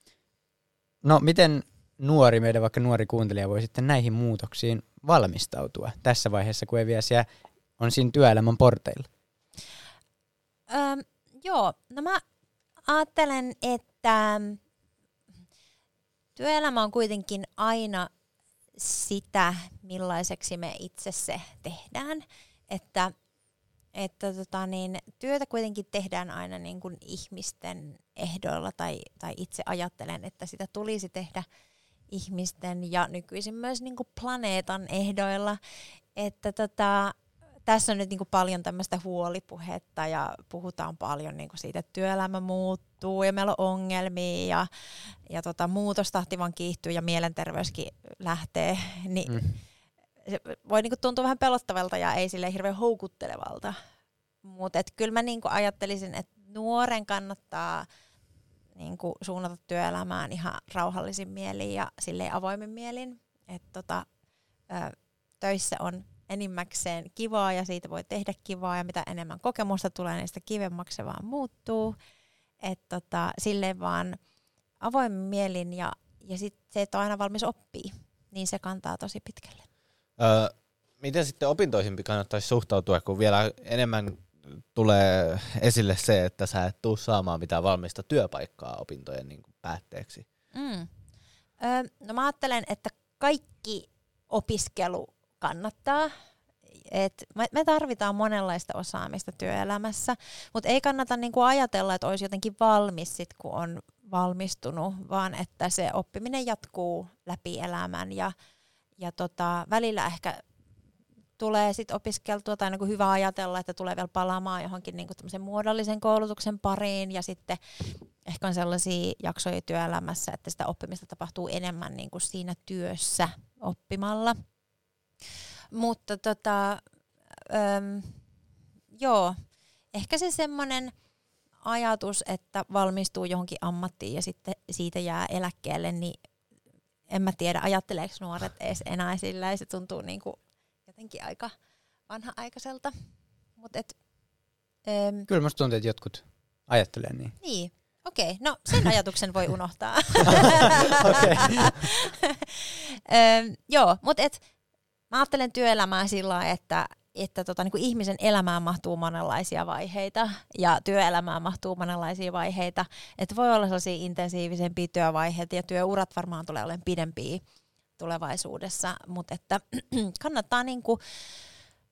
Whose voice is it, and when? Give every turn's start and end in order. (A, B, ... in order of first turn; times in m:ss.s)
0:01.0-0:07.3 A
0:07.8-0:09.1 A
0:10.7-0:12.2 B
0:12.9-0:14.6 B
0:16.4-0:18.1 B
0:18.8-0:23.1 B
0:24.0-0:31.4 B
0:32.1-0:35.6 B
0:36.2-0:44.7 B
0:45.3-0:49.5 B
0:49.3-0:49.5 A
0:50.2-0:53.8 B
0:54.4-0:57.9 B
0:58.8-1:04.1 B
1:04.7-1:12.0 B
1:12.6-1:14.2 B
1:14.8-1:19.6 B
1:20.2-1:30.3 C
1:30.5-1:30.9 B
1:31.6-1:36.1 B
1:36.7-1:48.3 B
1:49.0-1:50.4 B
1:51.4-1:57.6 B
1:58.2-2:04.4 B
2:05.7-2:06.8 B
2:07.5-2:08.2 B
2:09.0-2:09.4 B
2:09.9-2:10.9 B
2:11.6-2:16.2 B
2:17.1-2:21.5 B
2:22.1-2:22.9 B
2:23.6-2:24.0 B
2:24.9-2:25.3 B
2:25.3-2:27.4 A
2:27.4-2:34.4 B
2:31.0-2:31.8 A
2:35.1-2:47.4 B
2:48.0-2:51.0 B